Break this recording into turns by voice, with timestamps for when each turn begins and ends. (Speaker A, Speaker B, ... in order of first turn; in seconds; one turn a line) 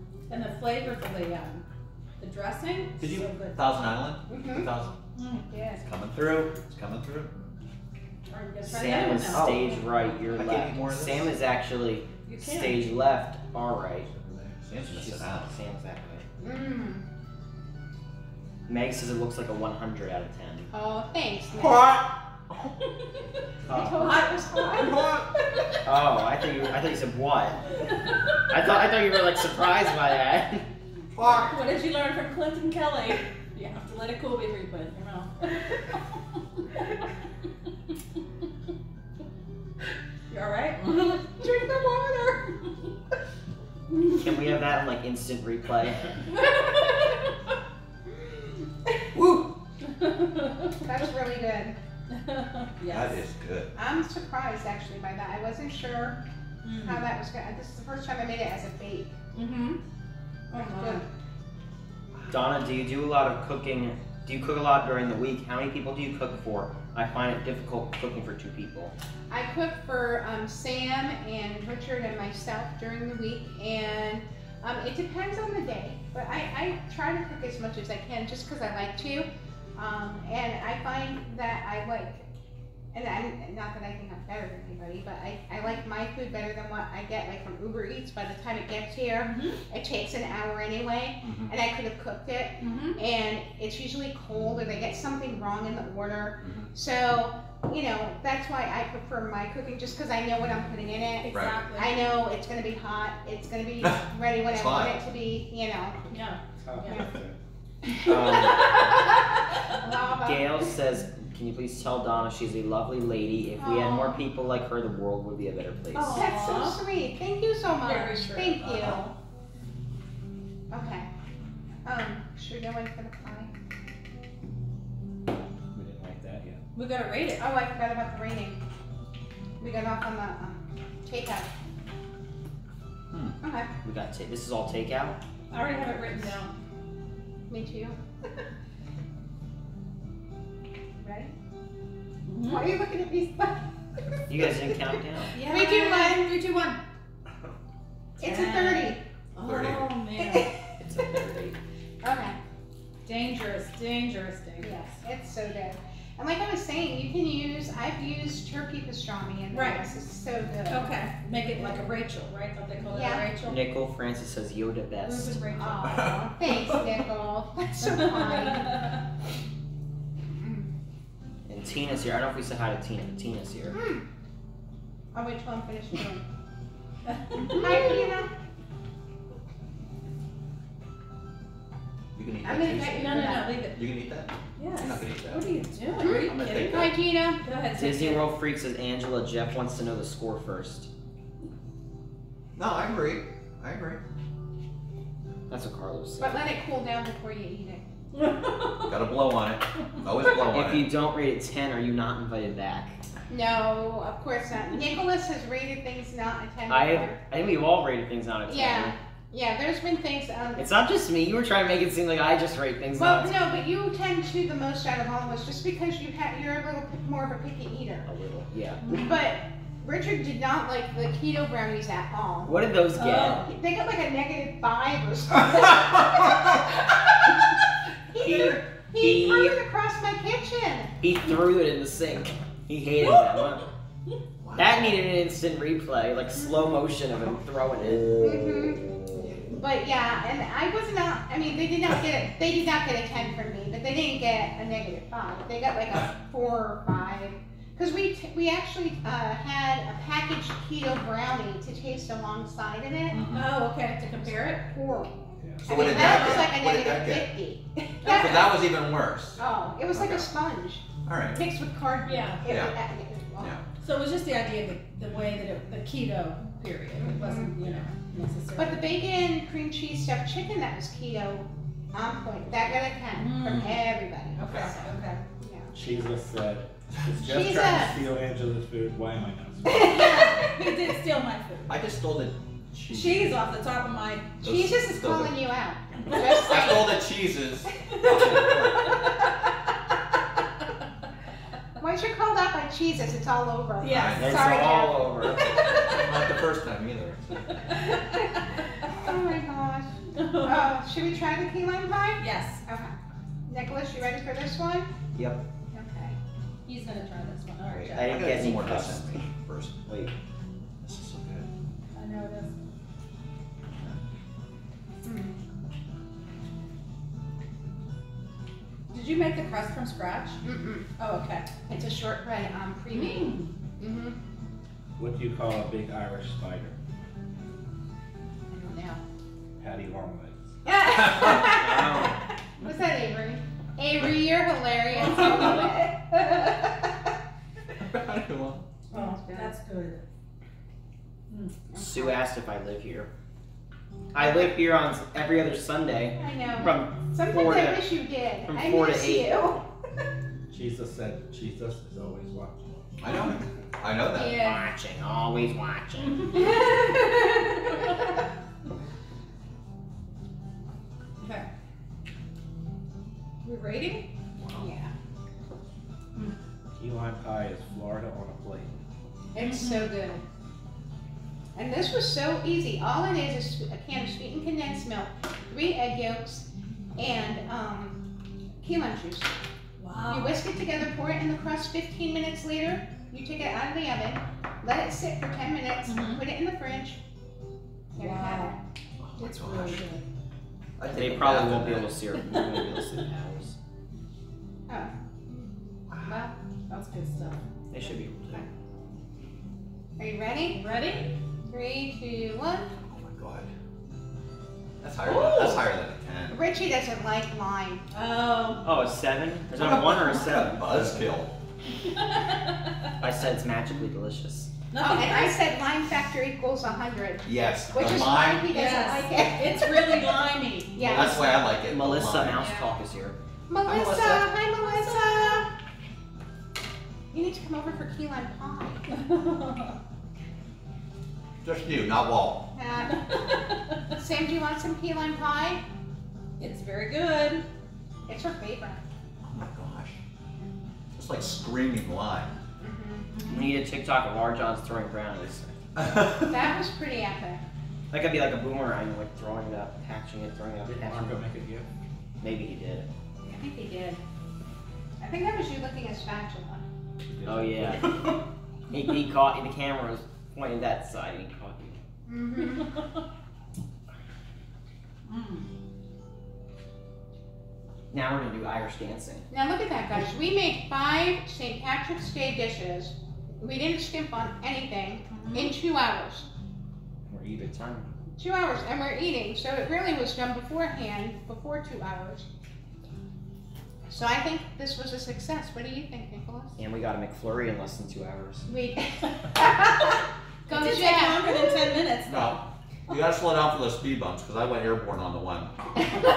Speaker A: 0.3-1.6
Speaker A: 2.2-3.7
Speaker B: 3.0-5.0
Speaker C: 4.3-4.7
Speaker A: 5.2-5.5
Speaker C: 5.5-5.8
Speaker B: 5.8-7.3
Speaker A: 8.3-9.8
Speaker D: 8.6-14.1
Speaker B: 9.3-9.6
Speaker B: 10.2-11.3
Speaker A: 12.3-12.8
Speaker E: 14.1-14.6
Speaker B: 14.6-15.6
Speaker D: 14.8-16.3
Speaker C: 16.4-17.1
Speaker D: 18.7-20.7
Speaker C: 20.7-22.0
Speaker C: 23.7-25.3
Speaker A: 23.7-25.0
Speaker D: 23.7-24.0
Speaker D: 25.8-27.6
Speaker D: 28.5-30.6
Speaker A: 31.2-35.8
Speaker A: 40.3-42.7
Speaker D: 44.1-46.1
Speaker A: 46.3-47.2
Speaker B: 49.1-49.6
Speaker A: 50.0-50.8
Speaker C: 50.8-51.8
Speaker A: 52.1-53.2
Speaker B: 52.8-53.7
Speaker C: 53.8-56.2
Speaker A: 56.6-57.1
Speaker C: 56.8-59.1
Speaker A: 59.4-59.8
Speaker A: 60.5-61.1
Speaker C: 60.5-61.1
Speaker D: 62.3-68.9
Speaker C: 69.3-82.3
Speaker C: 82.9-106.0
Speaker A: 89.3-89.6
Speaker B: 91.2-91.5
Speaker A: 92.6-93.0
Speaker B: 96.4-96.7
Speaker A: 101.2-102.1
Speaker B: 101.3-101.7
Speaker B: 103.8-105.0
Speaker A: 106.1-107.1
Speaker E: 106.6-107.4
Speaker C: 107.9-108.9
Speaker D: 108.0-108.8
Speaker C: 109.8-110.7
Speaker D: 110.2-116.2
Speaker C: 113.6-114.2
Speaker A: 116.0-116.8
Speaker C: 116.0-119.1
Speaker A: 117.8-119.1
Speaker C: 120.7-121.1
Speaker C: 121.8-123.5
Speaker E: 125.7-126.6
Speaker A: 126.7-127.5
Speaker C: 127.4-128.6
Speaker C: 129.6-131.5
Speaker C: 133.4-133.7
Speaker D: 133.8-135.2
Speaker A: 135.5-136.5
Speaker C: 135.5-135.9
Speaker C: 137.5-138.0
Speaker C: 141.0-141.3
Speaker A: 142.3-142.7
Speaker C: 142.3-144.8
Speaker D: 144.3-145.3
Speaker A: 145.3-146.8
Speaker C: 145.3-146.5
Speaker C: 148.2-149.1
Speaker A: 148.2-150.6
Speaker B: 149.4-150.0
Speaker C: 150.2-150.6
Speaker C: 152.0-152.4
Speaker A: 153.1-154.9
Speaker C: 154.6-161.0
Speaker A: 159.5-159.9
Speaker A: 160.7-163.6
Speaker C: 161.6-161.8
Speaker C: 162.9-163.3
Speaker D: 163.4-165.4
Speaker A: 165.0-166.1
Speaker C: 165.6-168.9
Speaker B: 165.8-166.2
Speaker A: 168.0-168.6
Speaker C: 170.4-170.7
Speaker D: 171.4-173.8
Speaker C: 173.7-174.1
Speaker C: 175.1-176.2
Speaker A: 177.3-178.0
Speaker C: 177.3-178.3
Speaker B: 182.1-187.0
Speaker C: 182.4-183.6
Speaker A: 182.9-183.8
Speaker A: 184.6-188.3
Speaker C: 185.9-187.4
Speaker D: 187.7-190.9
Speaker B: 192.6-194.0
Speaker D: 195.5-196.5
Speaker C: 196.2-197.8
Speaker A: 198.2-198.8
Speaker B: 198.8-200.9
Speaker D: 200.4-203.0
Speaker C: 203.3-207.2
Speaker D: 206.7-208.9
Speaker C: 208.5-210.7
Speaker D: 210.6-213.4
Speaker C: 212.9-218.1
Speaker D: 218.1-218.9
Speaker C: 218.9-222.7
Speaker D: 222.4-223.4
Speaker A: 223.0-223.4
Speaker C: 223.4-227.3
Speaker C: 228.1-231.0
Speaker D: 228.2-229.6
Speaker D: 231.0-233.7
Speaker A: 233.1-233.4
Speaker B: 234.4-235.0
Speaker D: 234.6-238.2
Speaker C: 238.2-238.9
Speaker C: 239.5-253.2
Speaker B: 253.1-253.7
Speaker A: 253.3-254.7
Speaker C: 254.2-258.6
Speaker E: 255.4-255.7
Speaker B: 255.7-257.3
Speaker B: 258.0-260.3
Speaker C: 259.4-263.6
Speaker B: 261.1-261.4
Speaker A: 262.0-262.4
Speaker B: 262.4-262.8
Speaker B: 263.4-263.6
Speaker A: 263.8-268.9
Speaker C: 267.0-267.6
Speaker C: 268.6-275.7
Speaker A: 273.1-275.2
Speaker E: 275.7-280.1
Speaker C: 277.2-278.0
Speaker C: 279.6-280.5
Speaker A: 279.8-281.8
Speaker B: 281.7-283.4
Speaker A: 282.9-284.4
Speaker C: 284.4-287.0
Speaker B: 284.4-285.4
Speaker B: 286.1-289.0
Speaker C: 287.9-288.4
Speaker A: 288.0-289.0
Speaker C: 291.8-295.7
Speaker A: 293.8-294.6
Speaker B: 293.9-294.5
Speaker D: 294.2-295.5
Speaker B: 295.7-297.5
Speaker C: 299.0-304.9
Speaker A: 300.2-300.8
Speaker A: 302.2-302.6
Speaker D: 305.1-305.5
Speaker C: 305.7-306.2
Speaker A: 306.6-308.5
Speaker B: 307.6-309.8
Speaker D: 307.9-309.2
Speaker D: 309.9-310.1
Speaker B: 310.8-311.5
Speaker A: 311.9-312.6
Speaker C: 315.0-315.4
Speaker A: 318.9-320.4
Speaker C: 320.4-320.9
Speaker A: 321.0-321.5
Speaker C: 321.6-324.2
Speaker A: 322.9-323.5
Speaker E: 325.0-326.8
Speaker C: 328.5-329.0
Speaker E: 329.6-330.4
Speaker C: 330.6-337.1
Speaker D: 331.2-332.2
Speaker B: 337.8-338.7
Speaker C: 338.9-339.5
Speaker A: 338.9-340.0
Speaker C: 341.7-342.2
Speaker D: 341.8-343.1
Speaker D: 344.1-349.5
Speaker C: 344.2-344.5
Speaker C: 346.2-349.6
Speaker E: 350.5-352.8
Speaker B: 353.0-354.5
Speaker A: 354.2-354.6
Speaker D: 354.3-356.5
Speaker C: 356.4-357.5
Speaker A: 361.2-361.5
Speaker A: 363.4-364.1
Speaker C: 364.6-364.9
Speaker E: 366.8-368.8
Speaker C: 369.3-370.2
Speaker A: 369.4-369.9
Speaker C: 371.6-378.1
Speaker C: 378.6-379.5
Speaker A: 379.8-380.4
Speaker C: 380.1-387.0
Speaker A: 385.9-386.2
Speaker C: 387.9-388.6
Speaker A: 388.0-388.6
Speaker B: 389.0-389.9
Speaker A: 389.2-390.0
Speaker B: 390.8-392.0
Speaker D: 390.9-393.6
Speaker B: 395.9-396.3
Speaker C: 396.0-396.3
Speaker A: 396.7-397.5
Speaker D: 397.7-398.4
Speaker C: 400.0-400.6
Speaker A: 400.5-401.1
Speaker C: 401.5-402.7
Speaker B: 402.9-403.5
Speaker B: 404.8-406.4
Speaker A: 405.1-405.7
Speaker C: 406.3-407.9
Speaker A: 407.9-408.7
Speaker D: 408.6-411.0
Speaker B: 409.5-411.3
Speaker A: 411.8-413.0
Speaker D: 413.0-414.5
Speaker A: 414.7-415.4
Speaker C: 414.8-420.1
Speaker B: 417.2-418.6
Speaker A: 418.4-421.1
Speaker C: 420.7-421.3
Speaker B: 420.8-422.5
Speaker D: 421.7-423.2
Speaker C: 423.5-425.5
Speaker B: 423.6-424.4
Speaker A: 424.6-425.3
Speaker C: 427.1-429.0
Speaker A: 428.9-429.8
Speaker B: 431.4-432.5
Speaker C: 432.6-433.2
Speaker C: 433.9-435.6
Speaker A: 436.4-437.4
Speaker C: 438.1-438.8
Speaker B: 439.3-440.0
Speaker B: 440.9-442.3
Speaker C: 442.6-443.2
Speaker D: 443.3-445.5
Speaker B: 445.8-446.3
Speaker C: 445.9-447.4
Speaker D: 447.9-451.2
Speaker E: 450.7-451.7
Speaker D: 452.2-452.9
Speaker C: 453.2-454.0
Speaker C: 455.0-456.6
Speaker E: 457.1-457.8
Speaker D: 457.2-457.9
Speaker D: 458.7-461.8
Speaker C: 462.1-462.8
Speaker A: 465.1-465.5
Speaker D: 467.9-469.3
Speaker C: 469.3-476.3
Speaker A: 475.1-475.5
Speaker E: 477.0-477.8
Speaker D: 477.5-477.9
Speaker C: 478.2-482.3
Speaker C: 483.9-486.6
Speaker D: 486.6-488.5
Speaker C: 488.5-491.8
Speaker A: 490.5-492.4
Speaker B: 492.0-495.6